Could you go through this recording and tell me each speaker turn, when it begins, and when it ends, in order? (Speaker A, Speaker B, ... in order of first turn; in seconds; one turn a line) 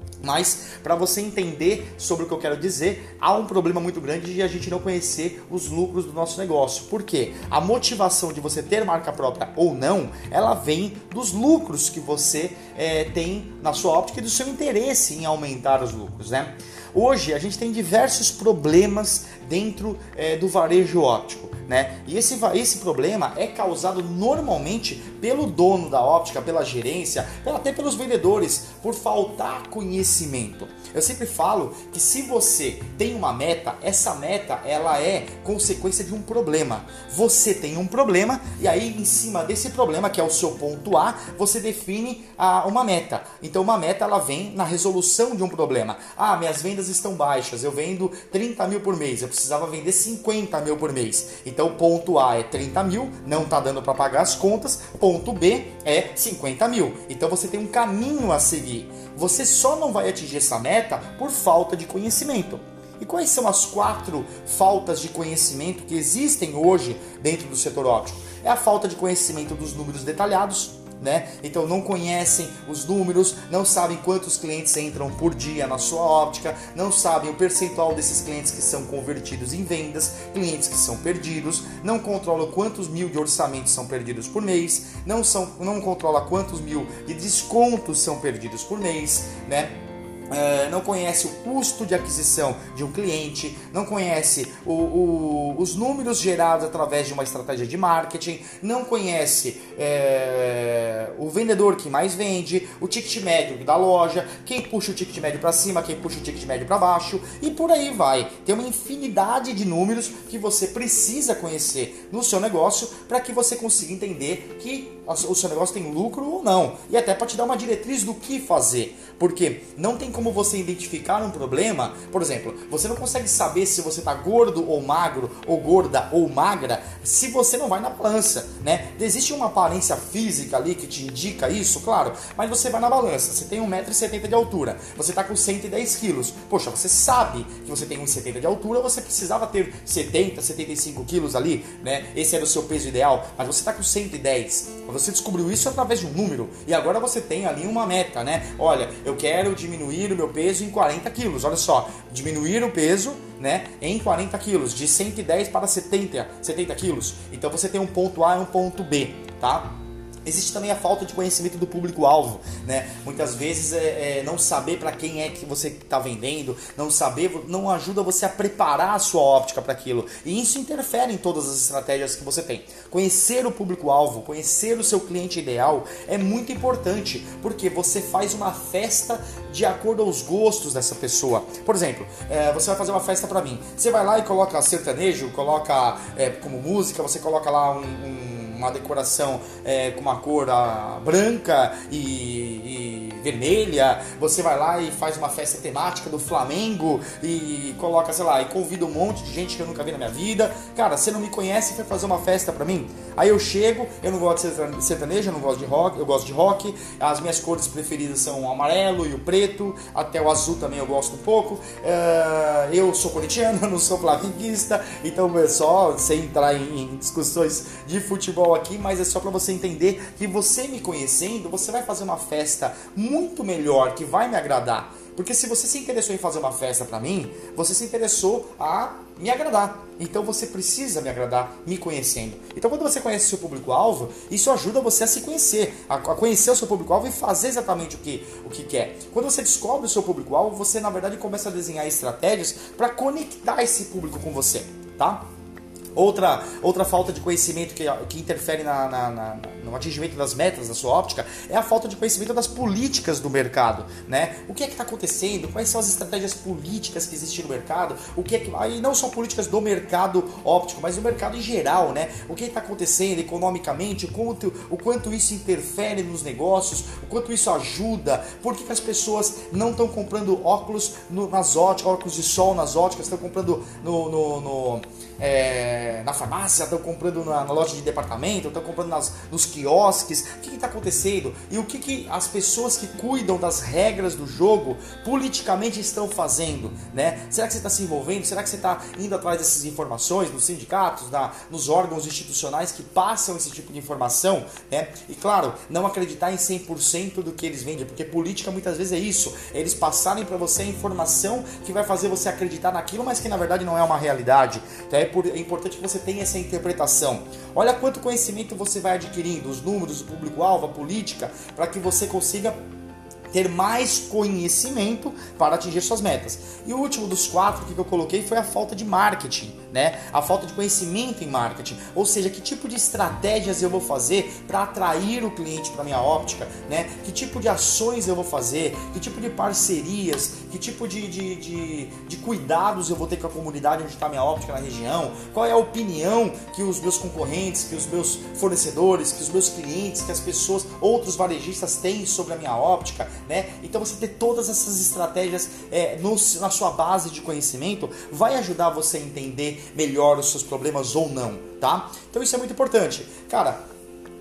Speaker A: 0.2-89.8
Speaker A: 90.3-245.3
Speaker A: 245.9-312.6
Speaker A: 313.3-353.6